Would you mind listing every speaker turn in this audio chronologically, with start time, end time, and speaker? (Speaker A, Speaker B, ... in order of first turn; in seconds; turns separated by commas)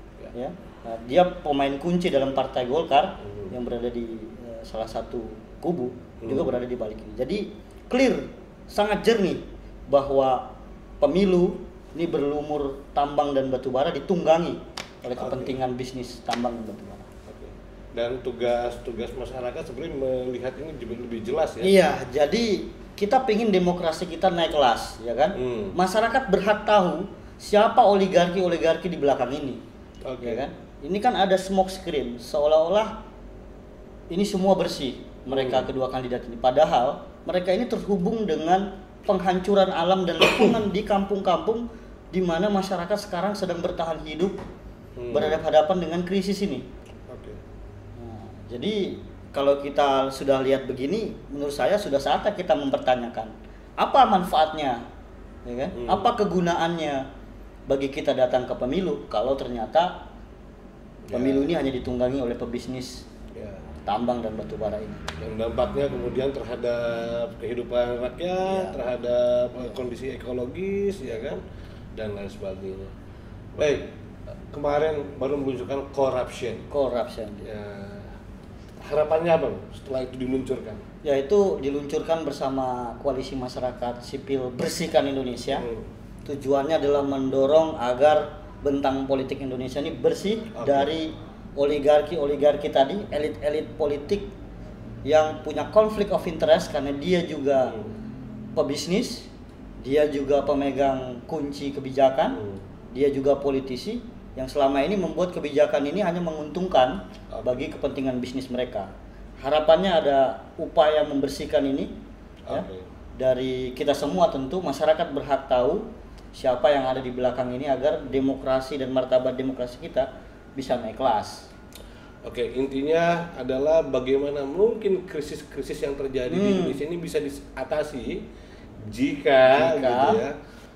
Speaker A: 0.3-17.1, Speaker B: 3.3-3.5, Speaker B: 6.2-6.6, Speaker B: 15.2-15.6, Speaker B: 17.2-21.8, Speaker A: 21.6-29.6, Speaker B: 25.4-25.8, Speaker B: 30.1-30.4, Speaker A: 30.2-33.0, Speaker A: 34.1-44.4, Speaker B: 35.3-35.7, Speaker B: 45.0-45.4, Speaker A: 45.1-46.7, Speaker B: 47.1-47.4, Speaker A: 48.0-54.8, Speaker A: 55.5-57.0, Speaker B: 55.7-56.1, Speaker A: 57.7-60.1, Speaker B: 61.1-61.5, Speaker A: 61.1-63.1, Speaker B: 63.3-63.6, Speaker A: 63.9-65.0, Speaker B: 65.2-71.4, Speaker B: 72.0-72.9, Speaker B: 73.6-73.9, Speaker B: 74.5-76.7, Speaker A: 76.7-77.5, Speaker B: 77.4-78.2, Speaker B: 78.8-80.8, Speaker A: 81.0-85.7, Speaker B: 85.5-85.9, Speaker A: 86.2-94.3, Speaker B: 90.5-91.0, Speaker A: 95.0-97.8, Speaker A: 98.5-99.3, Speaker A: 99.8-102.4, Speaker B: 102.3-102.6, Speaker A: 102.9-108.9, Speaker B: 107.3-107.7, Speaker A: 109.4-111.9, Speaker B: 112.5-112.8, Speaker A: 113.2-121.5, Speaker B: 122.2-128.2, Speaker A: 126.3-126.8, Speaker B: 128.8-130.4, Speaker A: 129.5-130.2